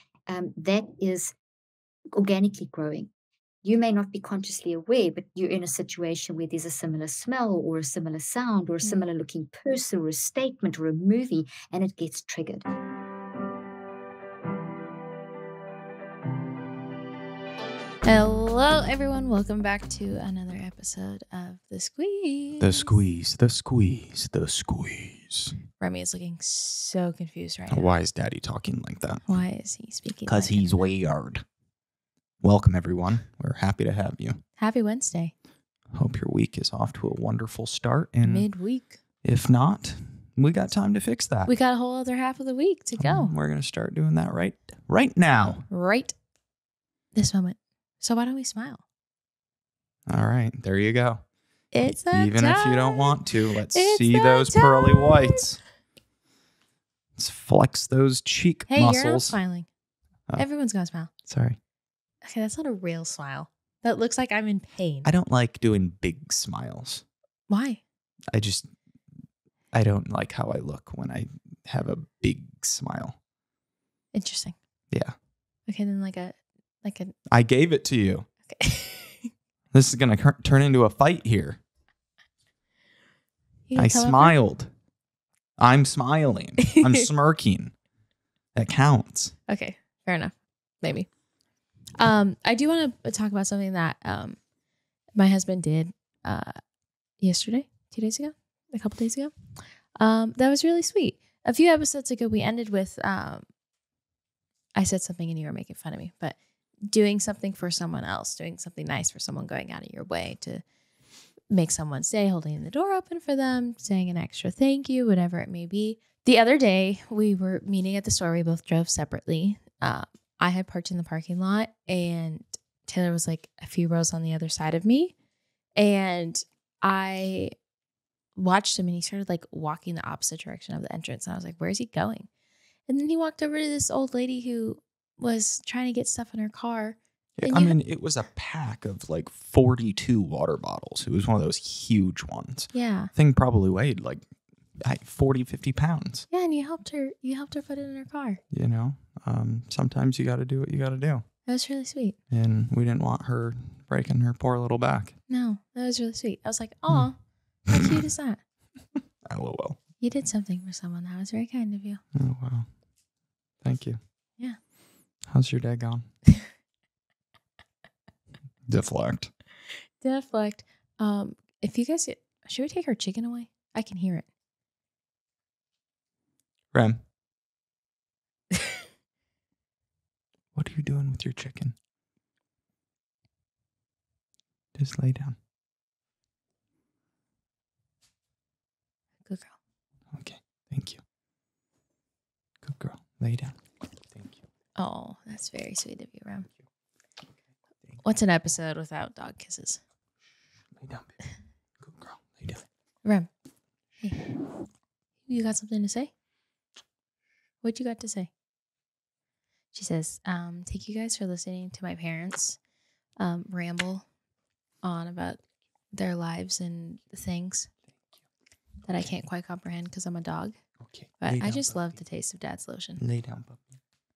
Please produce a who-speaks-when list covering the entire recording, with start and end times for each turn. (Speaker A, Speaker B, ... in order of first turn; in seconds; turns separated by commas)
Speaker A: 0.3-1.3, Speaker A: 2.1-3.1, Speaker A: 3.6-12.7, Speaker B: 18.0-22.9, Speaker C: 22.6-25.6, Speaker B: 25.8-27.9, Speaker C: 27.7-29.3, Speaker B: 29.2-30.8, Speaker C: 30.2-31.5, Speaker C: 32.4-34.4, Speaker B: 34.6-35.3, Speaker C: 35.9-38.6, Speaker B: 38.2-39.0, Speaker C: 39.2-41.5, Speaker B: 41.5-43.3, Speaker C: 43.0-45.7, Speaker B: 45.7-46.2, Speaker B: 47.1-48.8, Speaker C: 50.1-51.3, Speaker B: 51.7-55.5, Speaker C: 51.8-55.6, Speaker C: 57.2-59.4, Speaker B: 58.7-59.7, Speaker B: 60.3-61.1, Speaker C: 61.2-61.6, Speaker B: 62.2-65.1, Speaker C: 65.0-67.0, Speaker B: 67.5-67.8, Speaker C: 68.3-68.7, Speaker C: 69.7-73.2, Speaker B: 74.1-74.6, Speaker B: 75.7-77.2, Speaker C: 77.3-78.3, Speaker B: 78.5-79.3, Speaker C: 79.7-81.6, Speaker B: 83.7-84.4, Speaker C: 83.8-84.7, Speaker C: 85.6-87.8, Speaker C: 88.5-89.4, Speaker B: 89.5-91.2, Speaker B: 92.0-94.5, Speaker B: 95.1-96.6, Speaker B: 97.2-103.5, Speaker B: 104.8-110.6, Speaker B: 111.5-125.2, Speaker B: 125.8-127.5, Speaker B: 128.4-132.3, Speaker B: 132.9-137.8, Speaker C: 137.4-146.3, Speaker B: 142.7-143.1, Speaker B: 146.3-148.4, Speaker C: 148.5-151.4, Speaker B: 151.5-152.2, Speaker C: 152.3-155.2, Speaker B: 155.3-158.4, Speaker C: 156.9-157.1, Speaker C: 159.2-159.8, Speaker B: 160.0-162.0, Speaker C: 162.1-162.8, Speaker C: 163.6-164.0, Speaker C: 165.3-166.1, Speaker C: 168.7-169.3, Speaker B: 170.0-174.3, Speaker C: 176.7-177.0, Speaker C: 180.5-181.8, Speaker C: 184.7-185.4, Speaker B: 189.2-189.6, Speaker C: 190.1-191.0, Speaker C: 192.6-194.4, Speaker B: 194.8-196.5, Speaker B: 198.0-199.8, Speaker C: 200.8-201.2, Speaker C: 201.8-202.7, Speaker B: 203.0-203.3, Speaker B: 203.9-204.5, Speaker B: 205.2-206.1, Speaker B: 207.6-208.3, Speaker B: 209.7-212.6, Speaker B: 213.2-214.1, Speaker B: 214.8-217.7, Speaker B: 218.8-220.6, Speaker C: 220.8-222.0, Speaker B: 221.2-223.0, Speaker C: 223.0-223.6